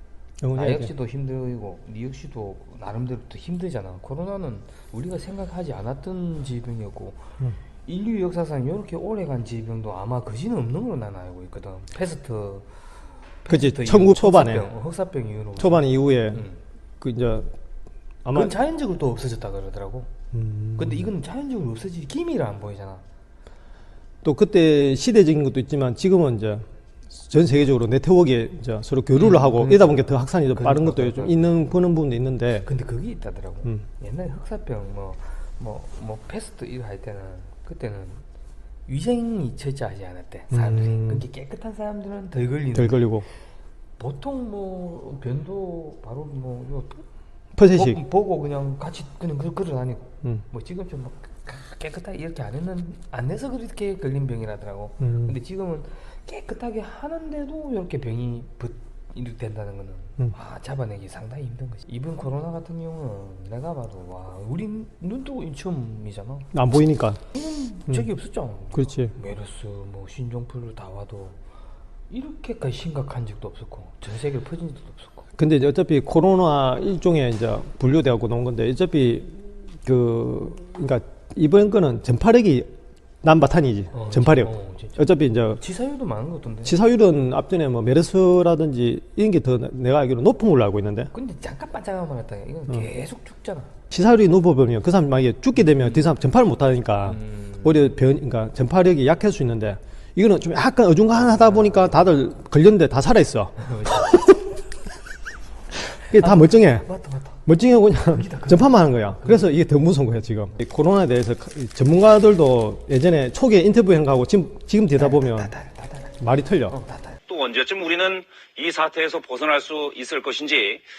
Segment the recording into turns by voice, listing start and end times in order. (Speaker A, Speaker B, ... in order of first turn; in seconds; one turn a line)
Speaker A: 0.4-0.9
Speaker B: 0.5-7.3
Speaker B: 7.8-16.6
Speaker A: 13.5-14.7
Speaker A: 15.6-16.4
Speaker A: 17.0-17.5
Speaker A: 18.2-18.5
Speaker B: 18.3-20.1
Speaker A: 20.3-21.1
Speaker B: 20.8-23.0
Speaker A: 24.2-32.7
Speaker B: 29.1-31.4
Speaker B: 32.6-38.2
Speaker B: 38.9-43.0
Speaker A: 40.5-41.2
Speaker A: 42.7-43.2
Speaker B: 44.0-47.0
Speaker A: 47.6-48.0
Speaker B: 47.6-66.5
Speaker A: 55.0-55.3
Speaker A: 66.5-67.2
Speaker B: 67.3-71.4
Speaker A: 68.7-69.1
Speaker B: 72.1-75.2
Speaker A: 75.4-82.7
Speaker A: 83.2-85.6
Speaker B: 83.9-86.8
Speaker A: 86.6-91.1
Speaker B: 91.1-93.7
Speaker A: 93.9-104.5
Speaker B: 95.7-96.1
Speaker B: 97.0-97.9
Speaker B: 101.2-102.0
Speaker B: 103.6-104.5
Speaker A: 105.7-106.9
Speaker B: 106.1-107.4
Speaker A: 107.5-115.5
Speaker B: 108.1-109.5
Speaker B: 114.9-117.2
Speaker A: 116.2-116.7
Speaker C: 117.3-120.8